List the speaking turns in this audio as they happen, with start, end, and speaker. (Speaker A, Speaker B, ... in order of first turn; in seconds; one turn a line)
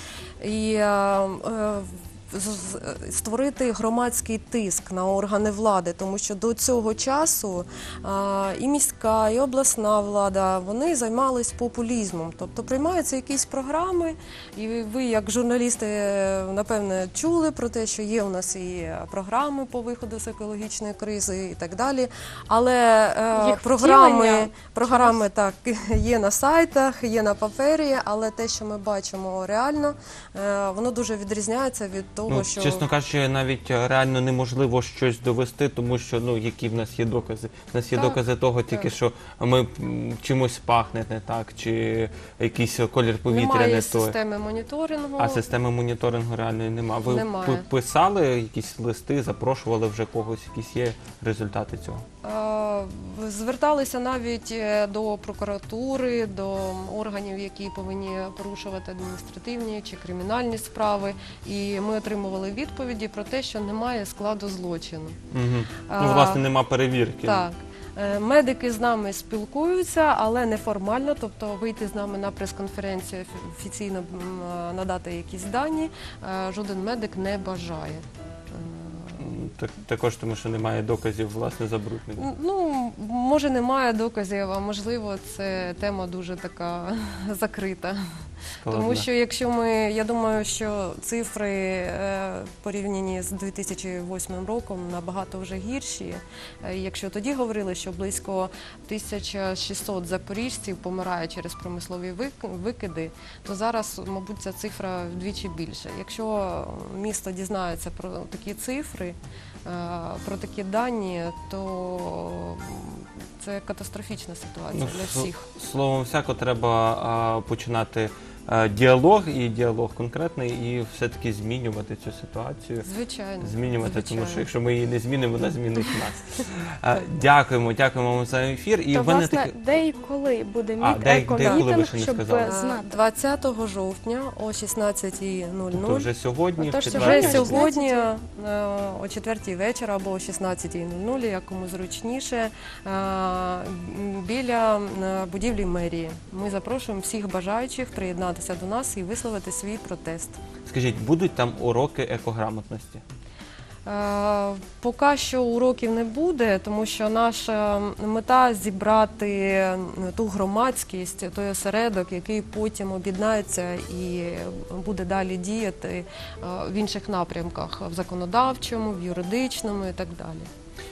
Speaker A: 0.4-32.9
Speaker B: 23.4-25.2
Speaker C: 32.3-44.2
Speaker A: 37.9-38.9
Speaker A: 43.3-45.4
Speaker C: 45.2-52.0
Speaker A: 47.0-47.6
Speaker A: 52.2-65.2
Speaker C: 65.3-67.5
Speaker A: 65.9-66.5
Speaker A: 67.2-79.3
Speaker C: 79.2-82.2
Speaker A: 82.2-88.0
Speaker C: 88.6-89.1
Speaker A: 88.7-115.5
Speaker C: 114.7-122.9
Speaker A: 122.8-124.5
Speaker C: 123.4-129.6
Speaker B: 128.9-133.0
Speaker C: 130.8-132.5
Speaker A: 132.4-136.1
Speaker C: 135.7-137.7
Speaker B: 136.6-138.1
Speaker A: 136.8-150.4
Speaker C: 150.7-153.0
Speaker A: 153.9-170.5